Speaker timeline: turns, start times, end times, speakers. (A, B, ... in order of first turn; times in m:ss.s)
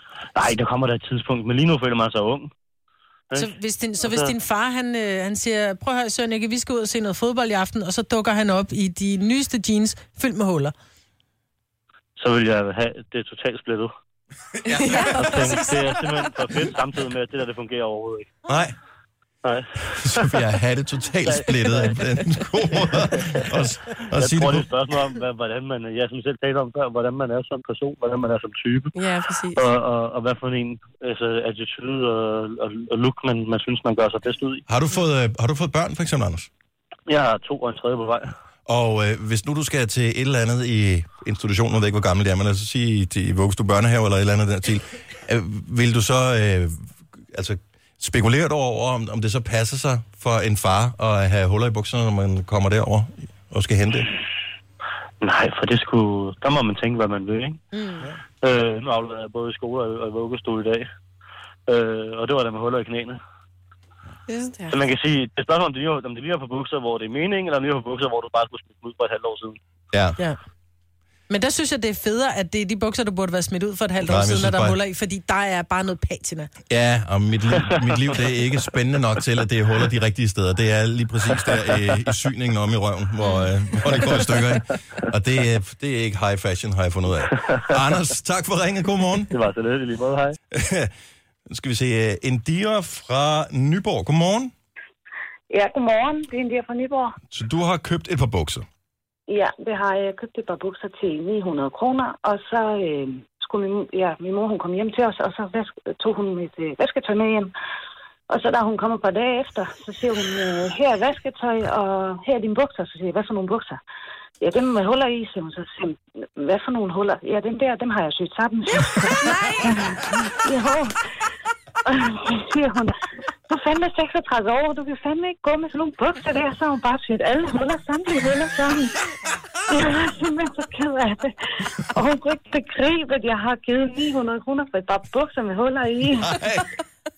0:00.3-0:02.5 A
0:03.3-0:04.3 A
0:03.4-0:10.7 B
0:12.2-0:13.9 A
0:14.7-0:15.2 C
0:14.8-0:18.3 A
0:14.8-0:15.6 D
0:18.5-0:18.8 C
0:19.4-0:20.4 A
0:20.0-0:24.6 C
0:21.2-0:22.0 A
0:23.1-0:23.6 A
0:24.1-0:28.9 A
0:28.9-0:29.6 D
0:29.5-0:34.6 A
0:34.7-0:36.5 C
0:37.1-0:38.3 A
0:38.6-0:54.1 C
0:55.2-0:57.6 A
0:58.4-1:00.8 A
1:01.7-1:03.2 A
1:04.3-1:04.8 D
1:04.7-1:09.6 A
1:09.9-1:10.2 C
1:11.3-1:16.5 B
1:14.0-1:14.8 C
1:16.7-1:29.3 C
1:29.3-1:30.4 A
1:30.5-1:30.9 C
1:31.5-1:34.5 C
1:35.5-1:37.2 E
1:37.3-1:38.6 C
1:39.3-1:47.5 E
1:48.3-1:53.8 E
1:54.4-2:00.9 E
2:01.8-2:02.9 E
2:03.5-2:09.1 E
2:09.7-2:16.4 E
2:16.2-2:16.7 C